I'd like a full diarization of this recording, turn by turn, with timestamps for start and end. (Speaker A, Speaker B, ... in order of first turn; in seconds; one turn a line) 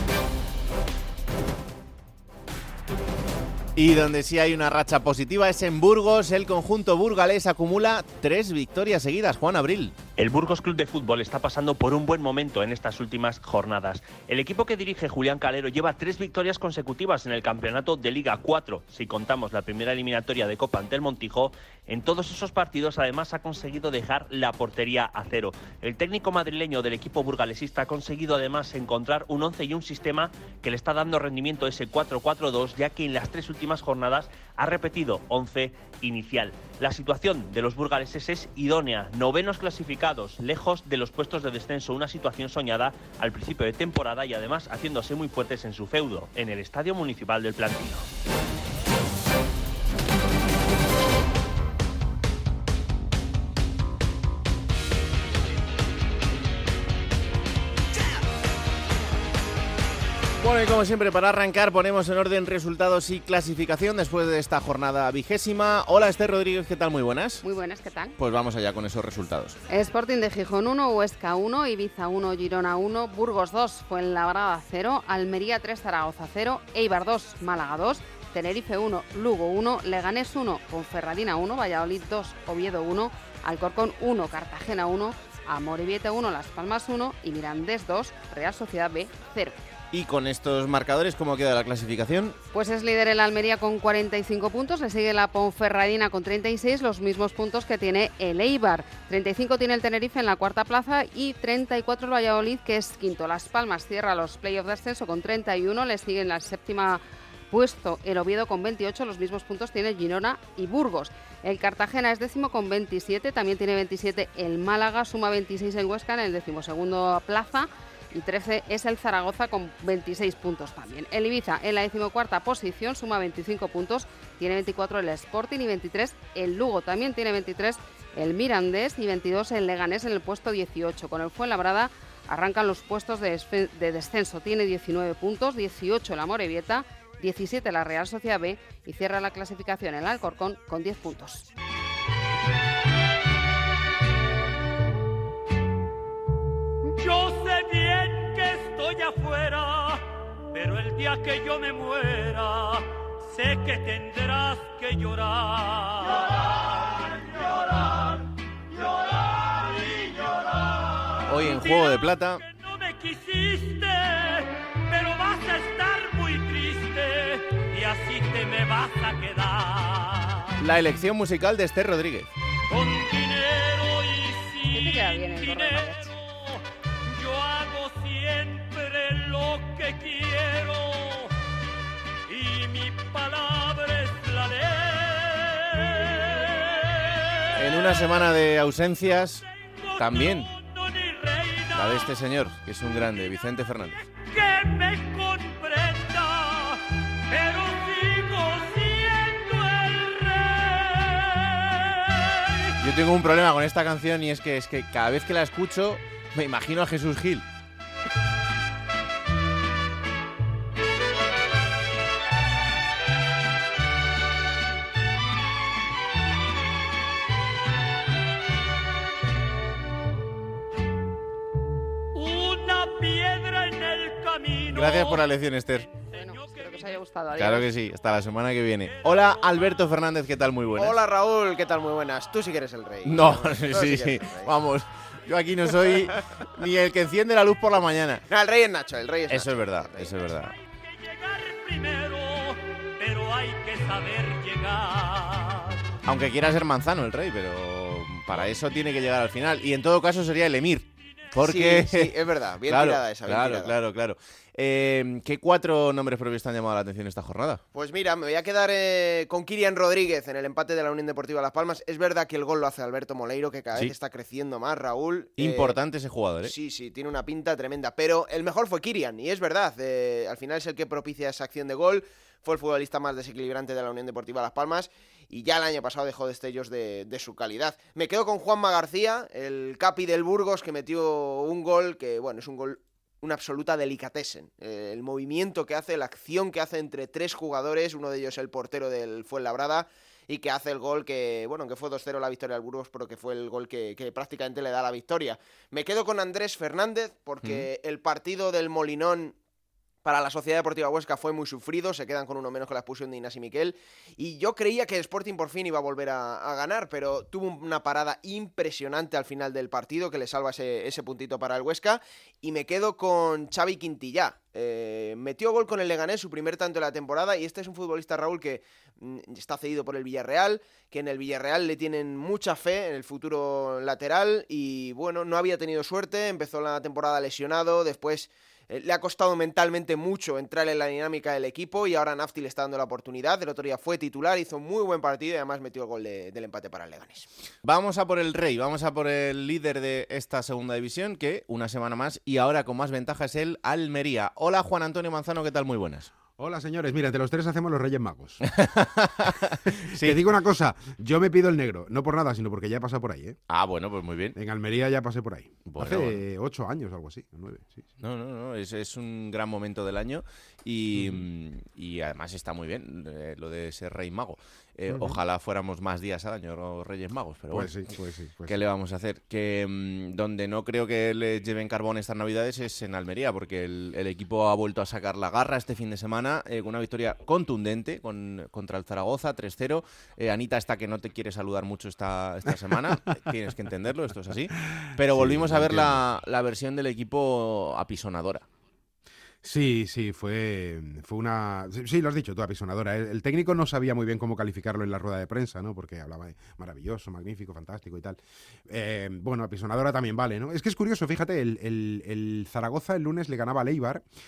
Speaker A: 3.8-9.9
Speaker B: 10.2-48.1
Speaker A: 60.4-67.4
Speaker C: 67.4-68.2
Speaker A: 68.2-69.6
Speaker C: 69.7-89.6
Speaker A: 89.9-92.4
Speaker C: 92.5-141.4
Speaker D: 146.9-157.2
Speaker D: 159.4-160.4
Speaker D: 161.2-170.6
Speaker A: 161.3-162.4
Speaker A: 170.6-172.3
Speaker D: 172.7-181.3
Speaker C: 174.7-176.1
Speaker D: 182.3-188.2
Speaker A: 187.5-189.4
Speaker D: 189.5-192.1
Speaker A: 190.0-190.5
Speaker A: 191.7-194.0
Speaker D: 194.0-202.8
Speaker A: 202.8-207.4
Speaker D: 222.1-225.3
Speaker A: 224.7-225.9
Speaker D: 225.9-227.0
Speaker C: 226.1-227.7
Speaker A: 227.3-231.0
Speaker D: 229.1-229.6
Speaker E: 230.8-234.5
Speaker A: 233.0-238.2
Speaker E: 238.3-240.1
Speaker A: 239.3-240.5
Speaker D: 240.7-245.8
Speaker A: 246.0-252.1
Speaker D: 248.3-248.7
Speaker E: 251.4-253.8
Speaker A: 252.6-257.6
Speaker E: 257.7-265.8
Speaker A: 265.4-266.5
Speaker E: 266.4-299.3
Speaker A: 297.4-297.7
Speaker E: 300.0-337.3
Speaker A: 337.6-346.1
Speaker F: 346.4-348.4
Speaker A: 348.4-350.2
Speaker F: 350.0-353.4
Speaker A: 353.5-354.3
Speaker F: 354.3-357.9
Speaker A: 355.6-356.2
Speaker A: 358.0-367.8
Speaker F: 361.0-361.2
Speaker F: 364.9-365.2
Speaker F: 367.5-368.6
Speaker A: 368.4-388.5
Speaker F: 385.1-386.0
Speaker F: 389.4-404.0